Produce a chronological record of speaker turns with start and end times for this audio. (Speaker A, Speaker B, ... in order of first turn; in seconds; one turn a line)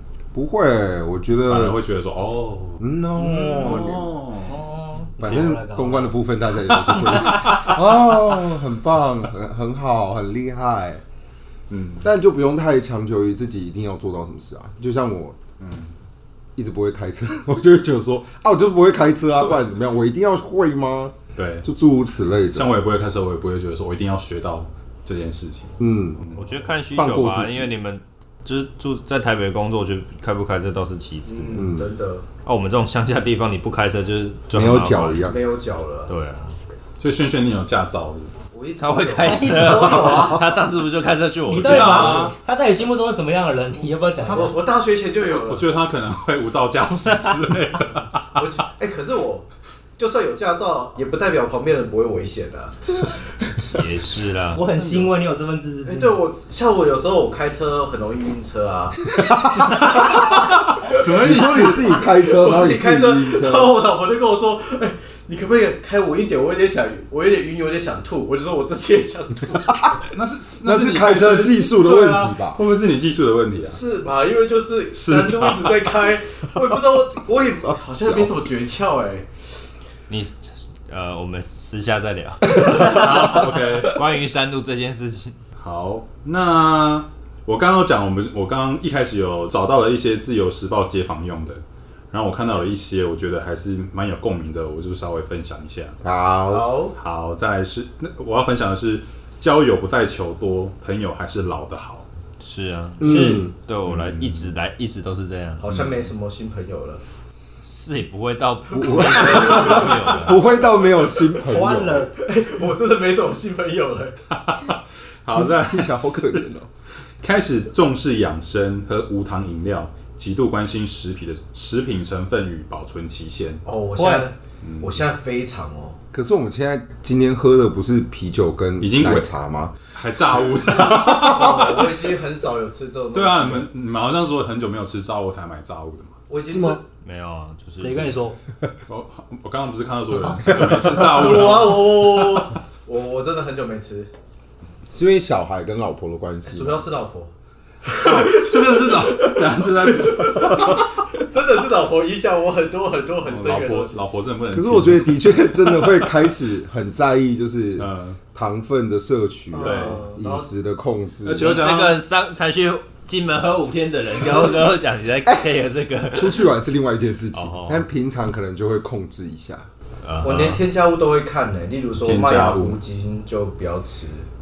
Speaker A: 0.3-1.8
Speaker B: 1.4-4.6
Speaker A: 2.8-4.1
Speaker C: 3.2-6.0
Speaker A: 5.2-11.0
Speaker B: 5.2-5.5
Speaker B: 6.6-8.1
Speaker B: 11.7-12.1
Speaker A: 12.0-15.4
Speaker B: 15.6-15.9
Speaker A: 16.6-22.7
Speaker B: 21.4-21.6
Speaker B: 22.5-26.5
Speaker A: 25.8-26.2
Speaker D: 26.3-31.6
Speaker A: 26.9-27.7
Speaker E: 31.3-32.2
Speaker A: 31.5-31.9
Speaker D: 32.4-35.3
Speaker A: 34.5-35.4
Speaker E: 35.2-36.1
Speaker D: 36.1-36.5
Speaker B: 37.0-38.3
Speaker E: 38.5-40.4
Speaker D: 38.8-42.3
Speaker C: 39.2-40.4
Speaker A: 40.0-40.4
Speaker C: 41.5-44.6
Speaker B: 41.6-42.3
Speaker B: 44.2-44.6
Speaker E: 44.2-45.6
Speaker B: 45.2-48.3
Speaker E: 48.4-49.5
Speaker E: 50.0-53.1
Speaker D: 53.7-55.0
Speaker C: 54.5-56.2
Speaker E: 55.9-70.0
Speaker A: 59.2-60.4
Speaker B: 59.7-61.9
Speaker A: 61.0-63.7
Speaker A: 69.7-70.0
Speaker B: 70.1-73.8
Speaker A: 70.6-72.6
Speaker E: 73.6-79.3
Speaker B: 74.9-76.0
Speaker B: 78.0-78.3
Speaker D: 80.1-85.4
Speaker B: 82.6-84.0
Speaker B: 85.6-96.0
Speaker A: 96.0-96.7
Speaker E: 96.5-97.0
Speaker B: 97.0-102.0
Speaker D: 102.4-105.6
Speaker C: 103.0-103.5
Speaker A: 103.0-103.5
Speaker B: 103.8-104.5
Speaker E: 105.6-107.0
Speaker B: 105.7-106.1
Speaker D: 107.6-110.4
Speaker A: 108.7-112.1
Speaker E: 108.8-111.4
Speaker C: 111.4-112.1
Speaker E: 112.1-114.2
Speaker B: 114.3-116.4
Speaker A: 115.3-116.7
Speaker B: 117.2-123.6
Speaker E: 123.6-126.0
Speaker C: 124.0-124.3
Speaker B: 124.6-125.0
Speaker A: 126.1-129.7
Speaker B: 128.8-129.3
Speaker B: 129.9-132.1
Speaker A: 130.9-131.7
Speaker E: 131.0-133.7
Speaker B: 133.1-136.2
Speaker E: 136.3-136.8
Speaker A: 136.4-136.8
Speaker D: 137.0-138.2
Speaker C: 137.8-138.3
Speaker B: 138.9-142.5
Speaker A: 140.5-141.0
Speaker E: 140.5-144.1
Speaker A: 144.9-146.8
Speaker E: 146.5-147.3
Speaker E: 147.8-154.0
Speaker B: 147.9-150.8
Speaker B: 153.2-156.0
Speaker A: 154.5-161.6
Speaker B: 157.8-158.2
Speaker E: 159.5-160.5
Speaker D: 159.6-160.0
Speaker B: 161.2-162.0
Speaker D: 161.3-166.4
Speaker A: 166.1-169.7
Speaker D: 167.3-167.8
Speaker D: 170.0-170.6
Speaker E: 170.2-174.3
Speaker B: 172.0-172.8